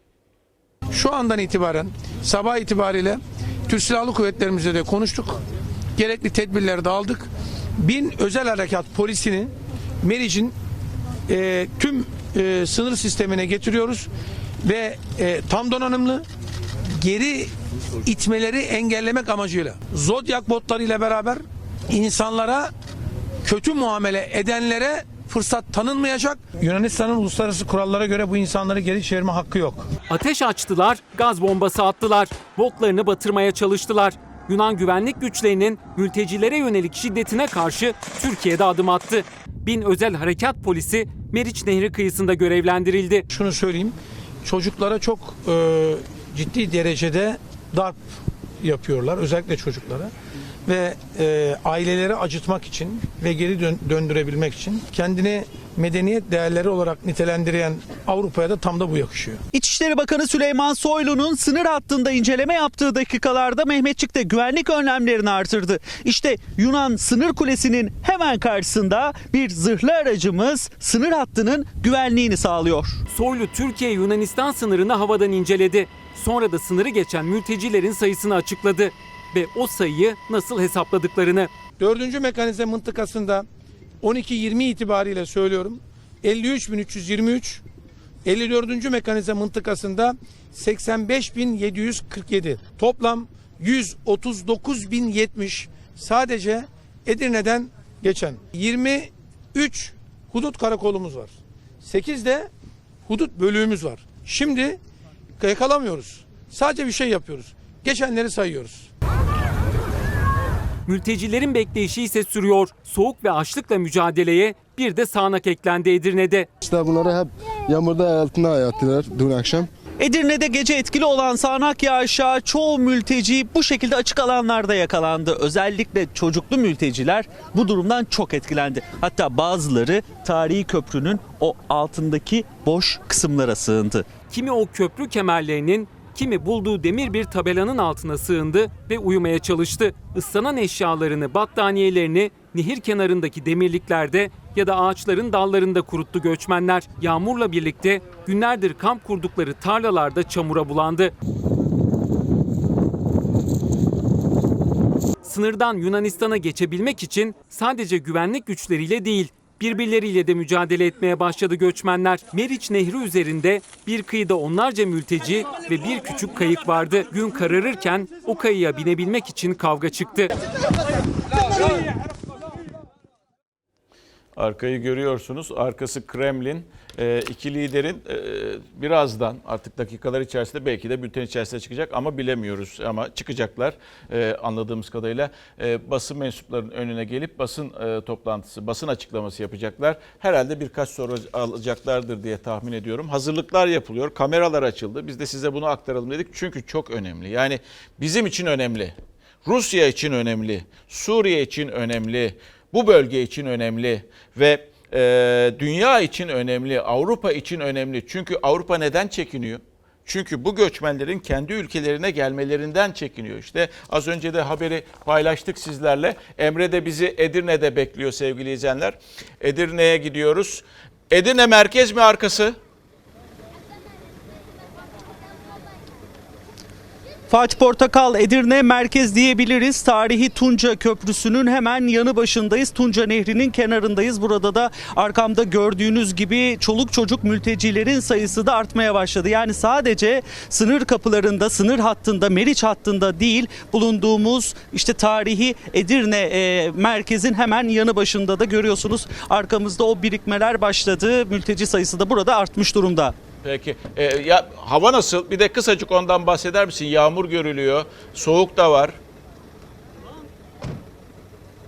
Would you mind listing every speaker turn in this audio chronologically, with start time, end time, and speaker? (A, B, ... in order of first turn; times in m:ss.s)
0:00.9-0:05.4 A
0:06.0-0:10.6 A
0:11.3-0:14.1 A
0:14.6-0:16.2 A
0:17.0-0:17.5 A
0:18.0-0:22.7 A
0:23.4-0:29.9 A
0:30.1-0:43.2 B
0:43.3-0:48.0 A
0:48.6-0:50.1 A
0:50.7-0:59.4 A
0:59.5-1:13.0 C
1:13.1-1:21.5 B
1:21.8-1:23.5 A
1:24.0-1:27.6 A
1:28.2-1:42.5 A
1:43.1-1:44.8 A
1:45.4-1:48.9 A
1:50.9-1:56.5 B
1:56.6-1:59.7 D
2:00.0-2:14.1 C
2:14.3-2:31.1 B
2:35.2-2:50.3 B
2:54.4-3:18.9 E
3:19.4-3:42.6 E
3:47.3-4:13.2 C
4:13.4-4:19.0 E